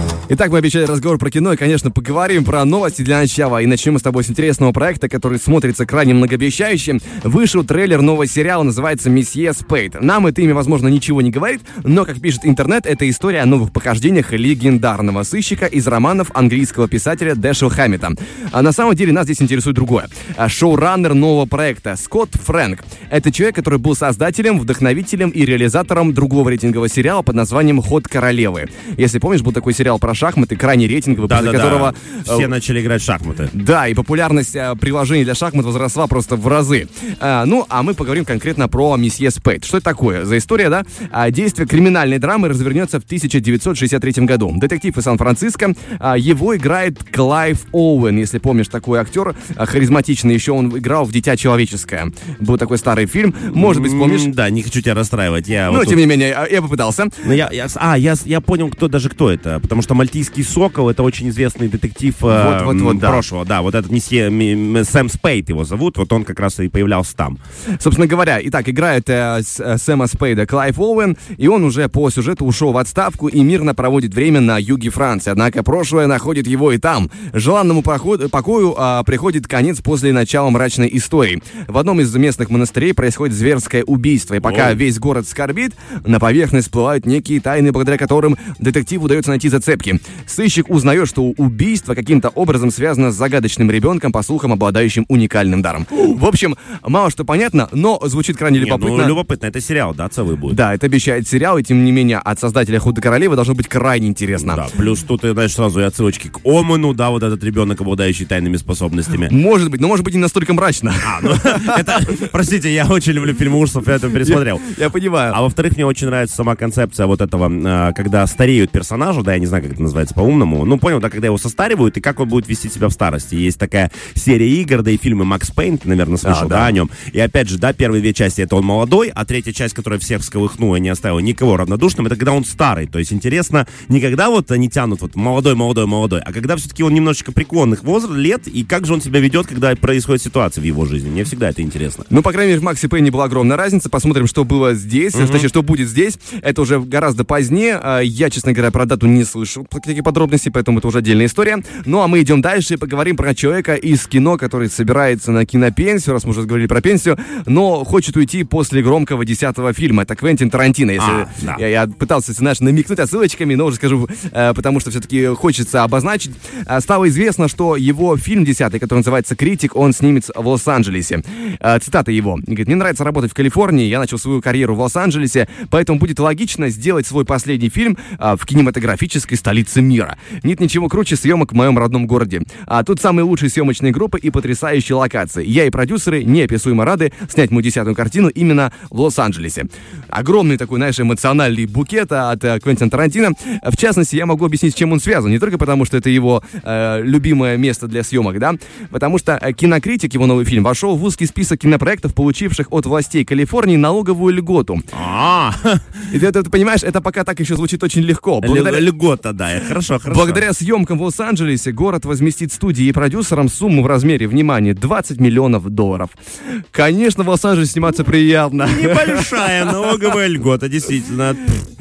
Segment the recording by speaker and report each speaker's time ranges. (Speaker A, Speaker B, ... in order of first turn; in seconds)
Speaker A: 0.3-32.5, 33.5-54.3, 55.7-57.3, 62.3-63.2, 67.8-99.2, 100.5-104.6, 109.3-111.9, 114.2-115.4, 126.2-126.8, 142.1-204.9, 206.1-208.9, 210.1-216.2, 216.7-219.6
Speaker B: 31.2-33.5, 53.5-56.0, 57.2-67.4, 84.4-84.8, 98.6-100.6, 104.4-109.3, 111.0-114.7, 115.3-142.1, 145.2-145.5, 161.0-161.6, 204.9-206.0, 208.4-210.4, 218.6-221.6